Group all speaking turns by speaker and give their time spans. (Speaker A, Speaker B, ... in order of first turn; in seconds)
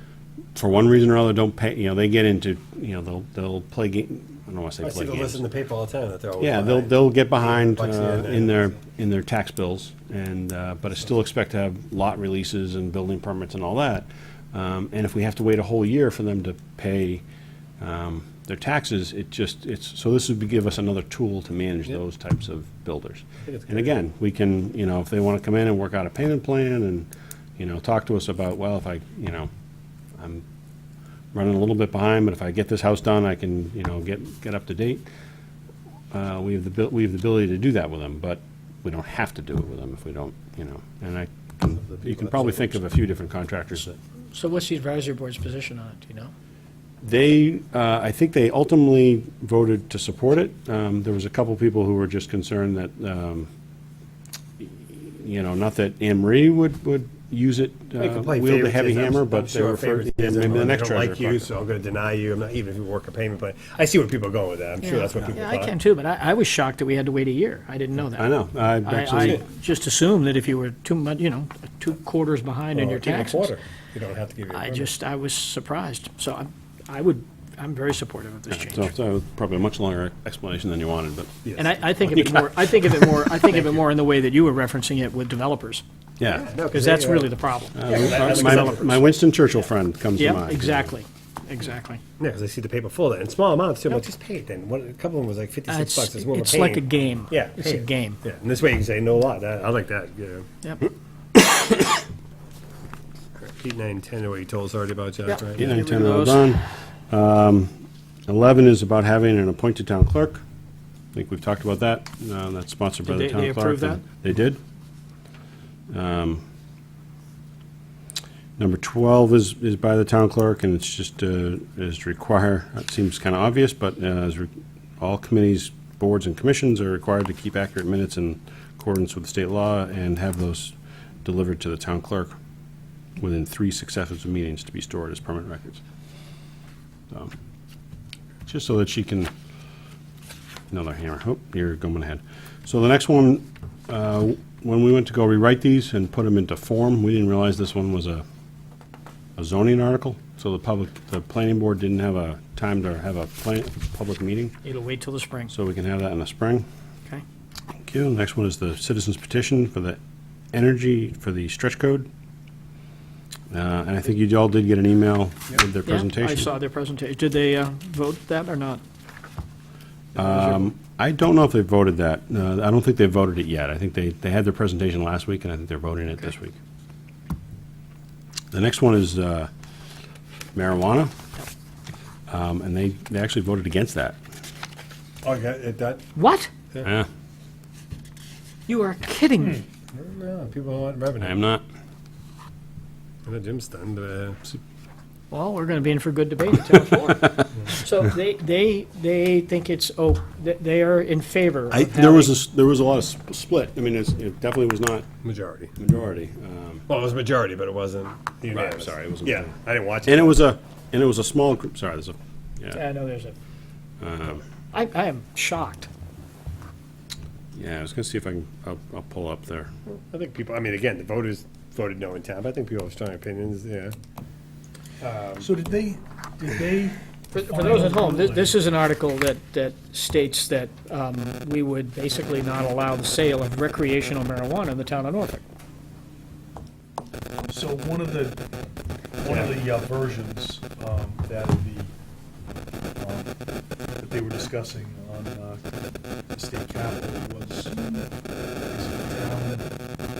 Speaker A: 0.6-5.4, 6.4-17.2, 17.8-29.5, 30.1-30.4, 31.3-35.0, 36.1-44.0, 47.0-53.5, 54.6-61.5, 68.1-69.4, 78.5-81.5, 82.0-83.2, 86.2-86.5, 87.7-90.9, 105.6-107.7, 108.3-110.4, 111.1-114.6, 115.9-116.4, 118.6-132.4, 133.2-135.8, 138.5-139.3, 140.7-148.2, 149.4-154.5, 155.5-156.7, 157.8-160.0, 160.5-162.1, 163.5-166.5, 170.2-176.6, 178.5-179.5, 180.6-181.1, 182.3-184.2, 191.2-191.6, 201.7-205.1, 205.8-206.9, 208.5-212.8, 214.0-214.4, 217.5-219.7
Speaker B: 4.8-8.8, 23.4-23.9, 41.9-42.7, 58.0-65.8, 72.7-74.9, 81.4-81.7, 86.3-89.0, 92.2-100.5, 103.3-105.8, 185.2-186.1, 189.9-191.4, 193.2-194.4, 205.2-205.7, 206.9-210.4, 219.9-223.9, 225.0-225.5, 239.2-239.6
Speaker C: 44.3-46.3, 64.8-73.5, 74.5-78.9, 81.6-85.8, 86.7-88.8, 90.2-92.0, 95.7-98.2, 105.3-106.6, 113.0-114.0, 154.6-155.5, 165.9-168.8, 170.2-170.7, 186.2-186.5, 188.7-189.6, 195.3-202.3, 212.7-213.4, 214.7-215.9, 227.3-235.4
Speaker D: 225.4-228.6, 237.5-238.4, 239.2-241.9, 243.0-243.3, 244.0-245.7, 246.3-247.8, 248.7-249.7